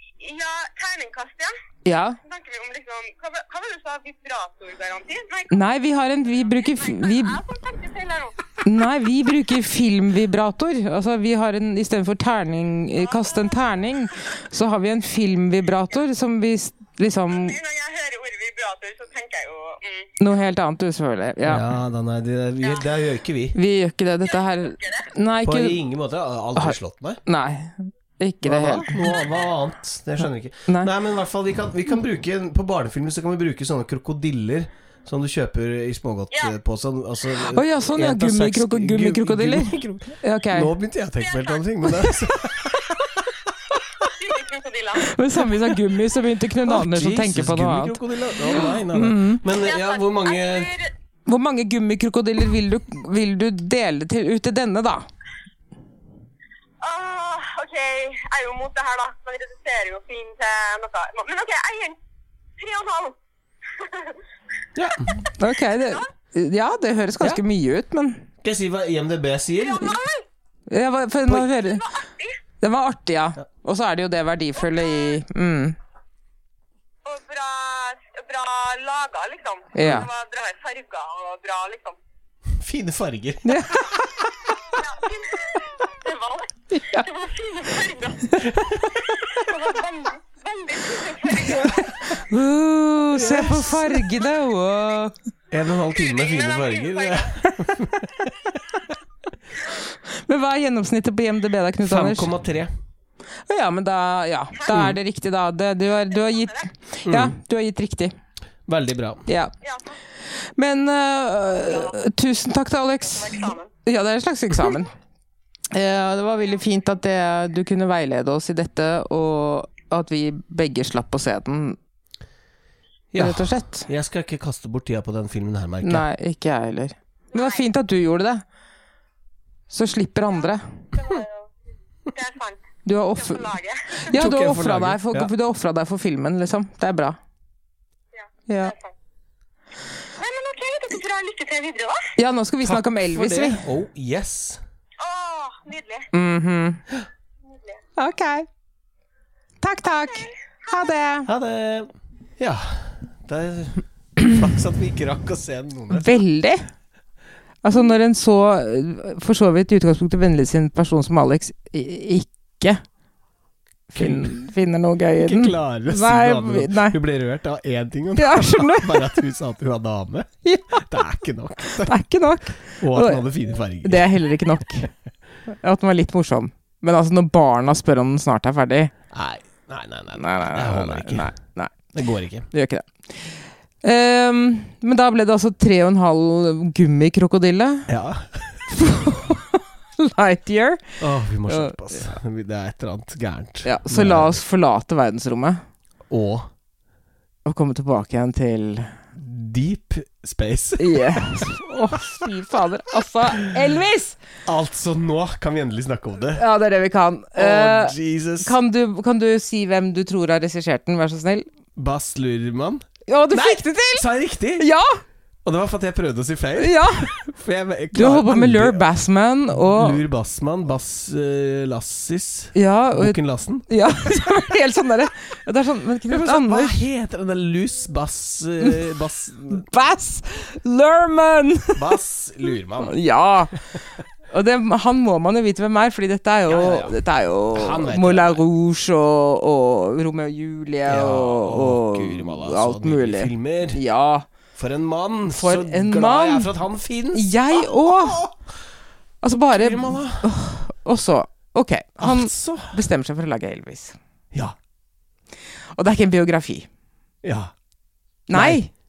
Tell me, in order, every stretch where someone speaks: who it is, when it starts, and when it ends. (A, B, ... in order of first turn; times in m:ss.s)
0:00.2-0:01.5 A
0:01.8-0:02.2 B
0:02.2-0:05.6 A
0:05.5-0:07.4 B
0:06.4-0:08.6 A
0:08.6-0:17.6 B
0:13.0-0:13.6 A
0:17.3-0:20.1 A
0:20.2-0:21.7 B
0:21.4-0:23.6 C
0:22.6-0:22.9 A
0:23.5-0:25.8 B
0:24.2-0:25.1 A
0:25.4-0:27.2 C
0:26.6-0:29.2 B
0:28.4-0:43.4 C
0:29.1-0:29.4 A
0:36.3-0:36.6 A
0:37.5-0:40.7 B
0:41.2-0:41.6 A
0:44.0-0:45.1 A
0:45.0-0:49.4 B
0:46.6-0:50.7 C
0:49.6-0:50.9 A
0:51.3-0:55.1 B
0:56.8-1:02.0 A
1:02.6-1:03.2 A
1:03.7-1:04.2 A
1:04.8-1:05.2 C
1:05.4-1:08.3 B
1:05.6-1:06.1 A
1:08.4-1:10.0 C
1:09.5-1:10.2 A
1:10.7-1:11.8 B
1:11.4-1:12.4 A
1:12.6-1:15.8 B
1:14.6-1:15.2 A
1:17.0-1:22.0 A
1:19.7-1:20.1 B
1:19.8-1:20.1 C
1:22.5-1:24.3 C
1:23.4-1:23.9 B
1:24.8-1:28.5 A
1:26.7-1:27.1 B
1:28.4-1:29.0 C
1:29.1-1:31.9 A
1:31.5-1:35.1 B
1:33.1-1:34.1 C
1:35.5-1:38.8 C
1:35.9-1:37.4 A
1:40.1-1:42.3 B
1:41.8-1:42.7 C
1:43.5-1:48.1 B
1:44.7-1:45.0 C
1:46.1-1:46.7 A
1:47.1-1:47.4 C
1:48.7-1:49.3 C
1:49.3-1:49.5 B
1:49.6-1:50.0 A
1:50.6-1:54.9 B
1:51.6-1:52.0 A
1:53.0-1:53.7 A
1:55.7-2:01.8 B
2:03.1-2:06.1 C
2:03.2-2:03.9 B
2:05.8-2:08.4 B
2:07.3-2:07.6 A
2:09.7-2:10.7 B
2:10.4-2:11.5 A
2:12.1-2:12.6 A
2:12.9-2:13.5 B
2:13.2-2:14.1 A
2:14.1-2:15.3 C
2:14.1-2:17.2 B
2:18.1-2:18.9 A
2:18.5-2:18.7 B
2:20.2-2:22.1 A
2:22.2-2:23.6 B
2:22.6-2:24.6 C
2:25.0-2:26.1 A
2:26.1-2:26.8 B
2:27.5-2:27.8 A
2:28.0-2:28.5 B
2:29.6-2:31.3 B
2:29.8-2:30.9 A
2:31.2-2:36.1 C
2:35.9-2:36.7 B
2:37.6-2:42.8 B
2:43.9-2:47.0 B
2:43.9-2:44.4 C
2:45.2-2:52.0 C
2:48.2-2:49.2 B
2:50.4-2:50.9 B
2:51.8-2:53.3 B
2:52.6-2:54.3 C
2:53.8-2:54.9 B
2:55.5-2:58.9 B
2:59.1-3:01.3 C
3:00.1-3:01.8 B
3:01.9-3:02.5 C
3:02.5-3:07.9 B
3:07.9-3:08.7 C
3:08.7-3:12.1 B
3:11.0-3:14.4 C
3:13.6-3:15.6 B
3:16.1-3:16.5 C
3:17.4-3:18.9 B
3:19.1-3:21.5 C
3:20.8-3:24.2 B
3:24.4-3:26.4 C
3:26.4-3:31.4 B
3:27.4-3:28.6 C
3:31.8-3:34.6 C
3:33.1-3:35.0 B
3:35.4-3:38.9 C
3:36.6-3:37.1 B
3:37.9-3:40.0 B
3:39.5-3:44.2 C
3:42.5-3:46.8 B
3:46.1-3:49.6 C
3:49.5-3:51.8 B
3:51.7-3:53.0 C
3:52.8-3:53.7 B
3:54.3-4:04.3 B
3:56.5-3:57.0 C
3:57.5-3:58.4 C
4:00.9-4:03.8 C
4:04.5-4:08.5 C
4:05.3-4:06.5 B
4:07.1-4:08.2 B
4:09.2-4:14.0 B
4:09.5-4:10.3 C
4:12.0-4:12.8 C
4:15.7-4:16.7 B
4:17.2-4:17.5 C
4:18.3-4:18.7 B
4:18.3-4:18.6 C